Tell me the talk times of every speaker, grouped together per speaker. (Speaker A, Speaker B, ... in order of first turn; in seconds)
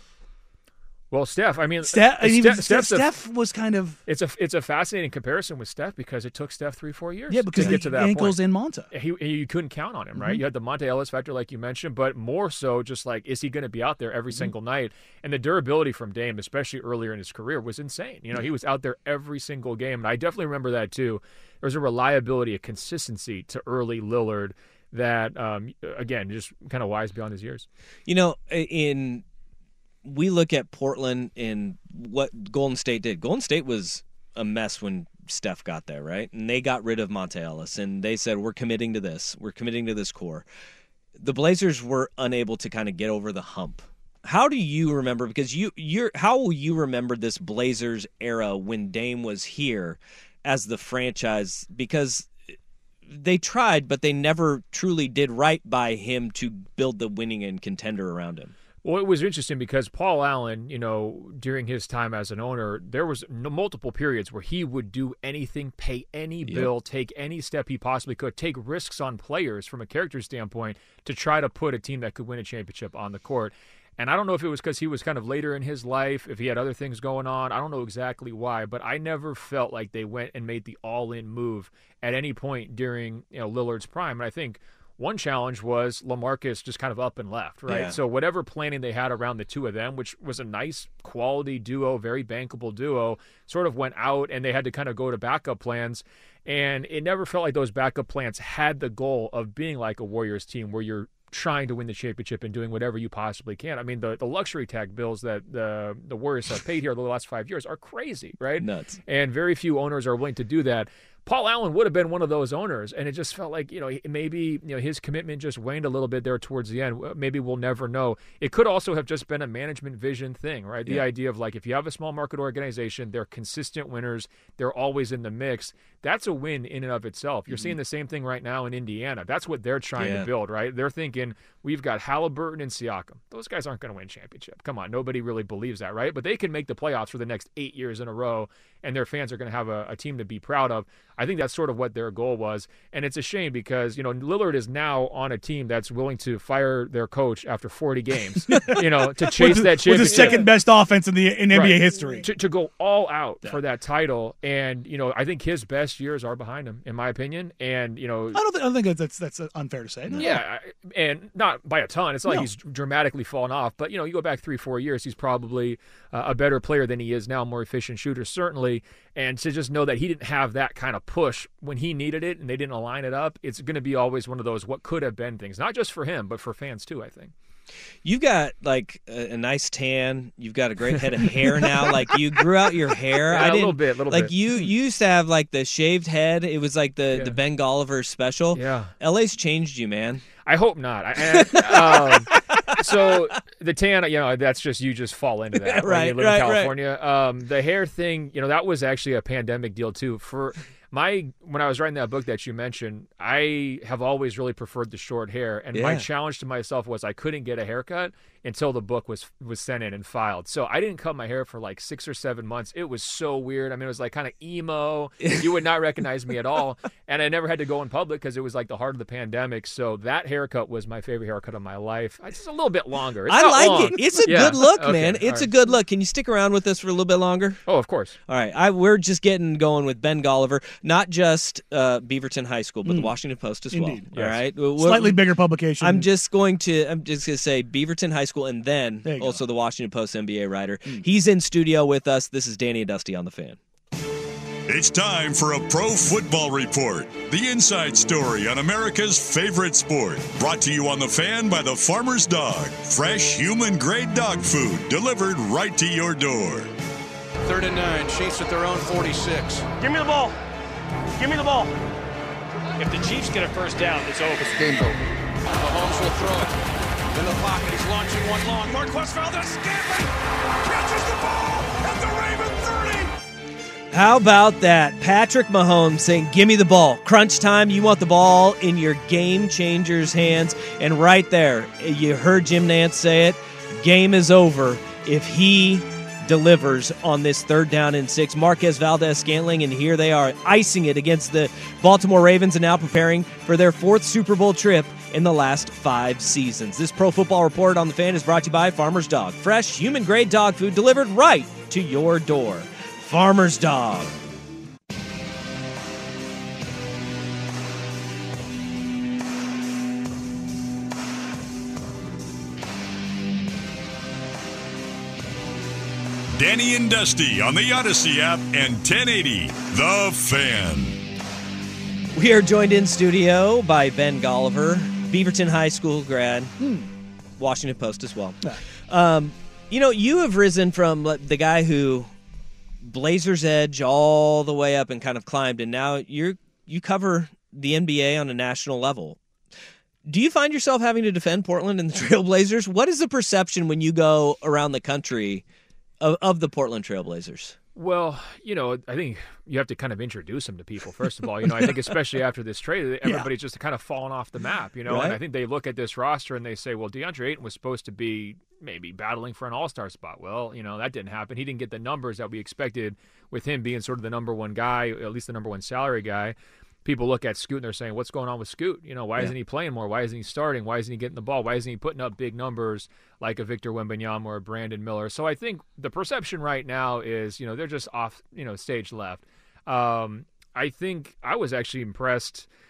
Speaker A: 1.1-3.1, 4.1-27.6, 58.8-150.6, 151.5-158.4, 160.2-177.3, 183.2-184.7, 187.1-187.4, 188.5-188.9, 190.4-225.5, 227.7-228.2, 234.1-234.4, 347.8-382.5
Speaker B: 1.8-4.0, 7.3-8.9, 10.1-10.4, 148.5-152.3, 158.3-160.4, 232.8-233.1, 233.7-234.1, 234.8-236.1, 239.0-239.4, 326.6-326.9
Speaker C: 28.1-29.2, 30.0-40.4, 41.2-52.3, 53.1-58.5, 87.7-88.0, 108.6-109.0, 130.0-130.3, 178.0-190.2, 191.2-193.2, 195.6-196.7, 205.7-206.1, 215.2-215.5, 223.3-227.6, 228.3-235.2, 235.8-243.6, 273.9-304.1, 322.1-326.5, 327.4-332.1, 332.8-339.2, 340.1-345.4, 346.0-347.6, 354.9-355.2
Speaker D: 244.7-256.7, 316.4-321.0
Speaker E: 257.4-259.7, 262.8-264.6, 265.5-266.5, 267.1-273.1
Speaker F: 259.8-260.4, 261.1-261.8, 263.4-264.9